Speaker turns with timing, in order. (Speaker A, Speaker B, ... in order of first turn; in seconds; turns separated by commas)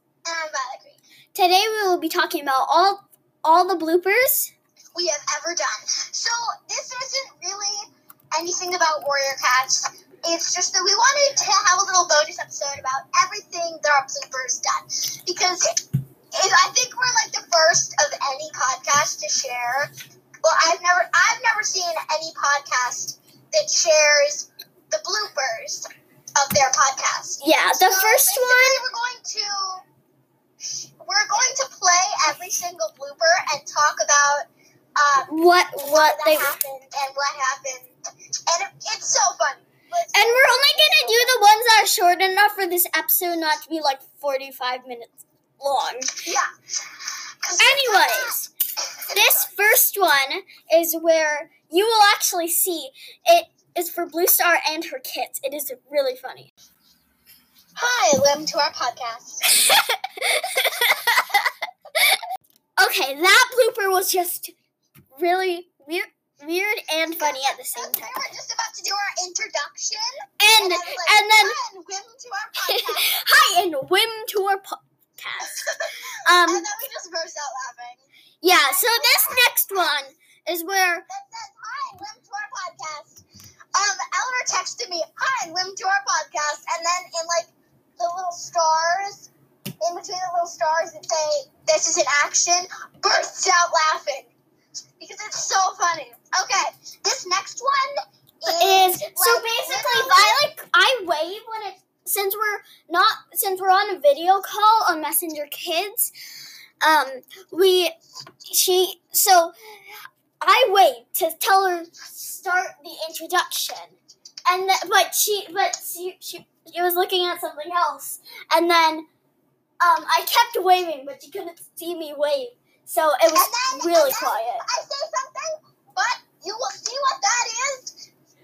Speaker A: 0.2-1.0, Speaker B: 1.3-4.5, Speaker A: 4.9-15.7, Speaker A: 16.3-19.9, Speaker A: 20.4-29.8, Speaker B: 27.4-28.8, Speaker A: 30.6-35.3, Speaker B: 35.3-36.6, Speaker A: 35.8-37.9, Speaker A: 38.5-41.4, Speaker B: 40.1-46.1, Speaker A: 47.4-48.4, Speaker B: 47.6-48.5, Speaker A: 49.0-49.5, Speaker B: 49.1-56.5, Speaker A: 57.8-59.4, Speaker B: 59.5-61.5, Speaker B: 62.8-64.5, Speaker B: 65.1-68.1, Speaker A: 67.2-73.1, Speaker B: 70.4-71.6, Speaker B: 72.6-75.7, Speaker B: 76.2-76.7, Speaker A: 76.3-79.5, Speaker B: 78.4-81.0, Speaker A: 81.1-83.2, Speaker A: 83.7-89.3, Speaker A: 89.8-94.3, Speaker A: 95.0-100.4, Speaker B: 98.4-106.1, Speaker B: 106.8-107.9, Speaker B: 108.5-119.0, Speaker B: 119.8-124.6, Speaker A: 123.3-127.9